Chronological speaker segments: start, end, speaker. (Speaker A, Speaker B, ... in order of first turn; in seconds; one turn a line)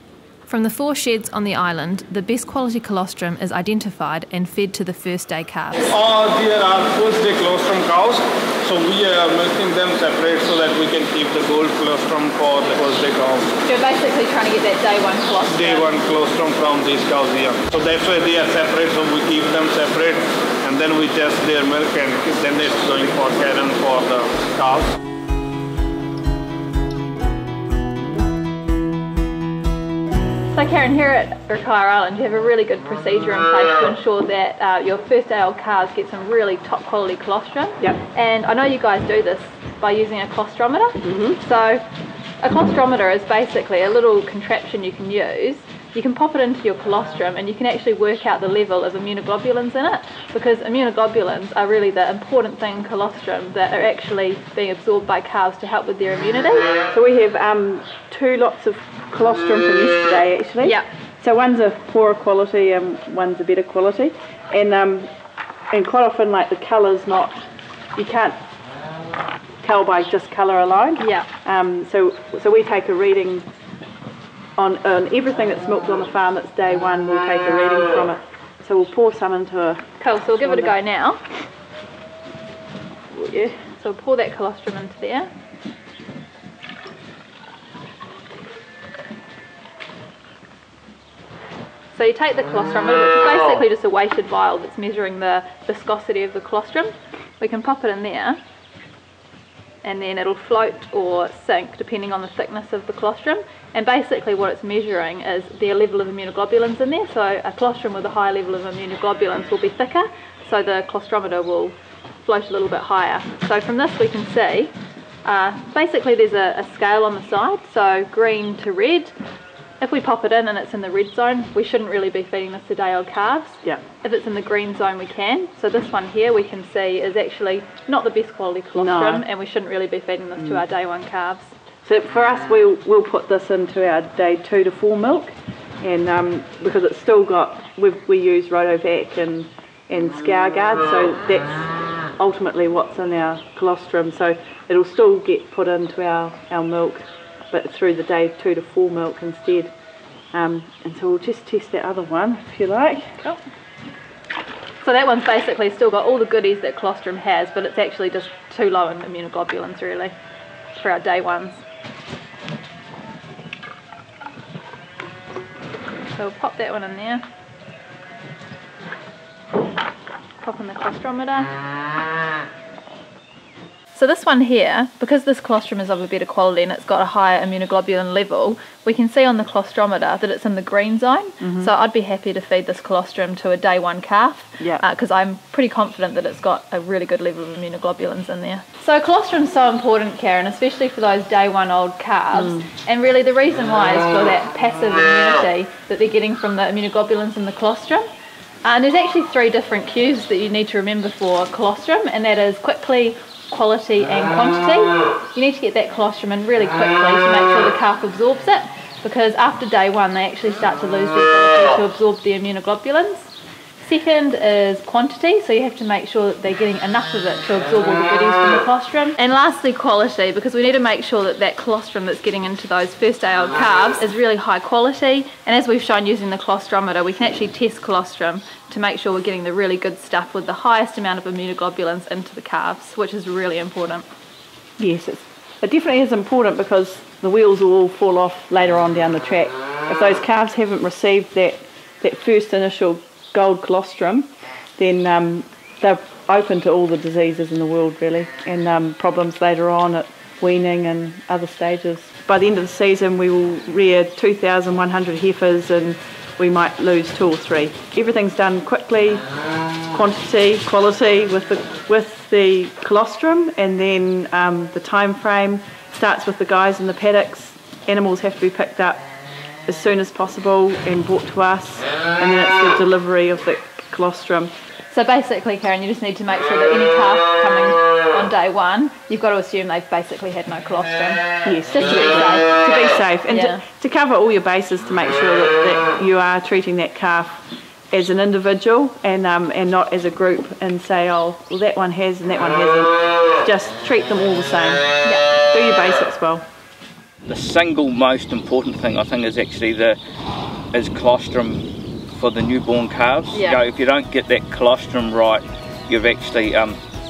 Speaker A: 0.5-5.9
Speaker B: 5.9-13.5
Speaker A: 13.6-15.9
Speaker B: 15.5-24.9
Speaker A: 30.5-41.8
Speaker C: 41.0-41.4
Speaker A: 42.4-56.7
Speaker C: 56.9-65.1
Speaker C: 65.7-67.4
Speaker C: 68.0-68.4
Speaker C: 69.6-73.5
Speaker A: 71.0-71.3
Speaker C: 74.6-79.9
Speaker A: 80.0-81.2
Speaker C: 80.4-80.7
Speaker C: 83.2-83.5
Speaker A: 83.6-85.3
Speaker A: 91.9-98.4
Speaker A: 99.8-114.7
Speaker A: 115.2-119.1
Speaker A: 119.8-131.5
Speaker C: 128.7-129.2
Speaker C: 131.8-149.7
Speaker C: 150.3-153.2
Speaker A: 154.8-160.1
Speaker A: 160.7-161.6
Speaker A: 166.1-167.2
Speaker A: 170.4-171.5
Speaker A: 173.9-198.1
Speaker C: 181.4-181.7
Speaker C: 192.3-192.7
Speaker A: 198.6-234.0
Speaker C: 234.8-259.2
Speaker C: 259.9-269.0
Speaker C: 269.7-274.5
Speaker A: 274.9-282.5
Speaker C: 281.4-294.9
Speaker A: 283.3-283.6
Speaker C: 295.5-296.4
Speaker D: 297.3-300.0
Speaker D: 300.7-306.8
Speaker A: 303.3-303.6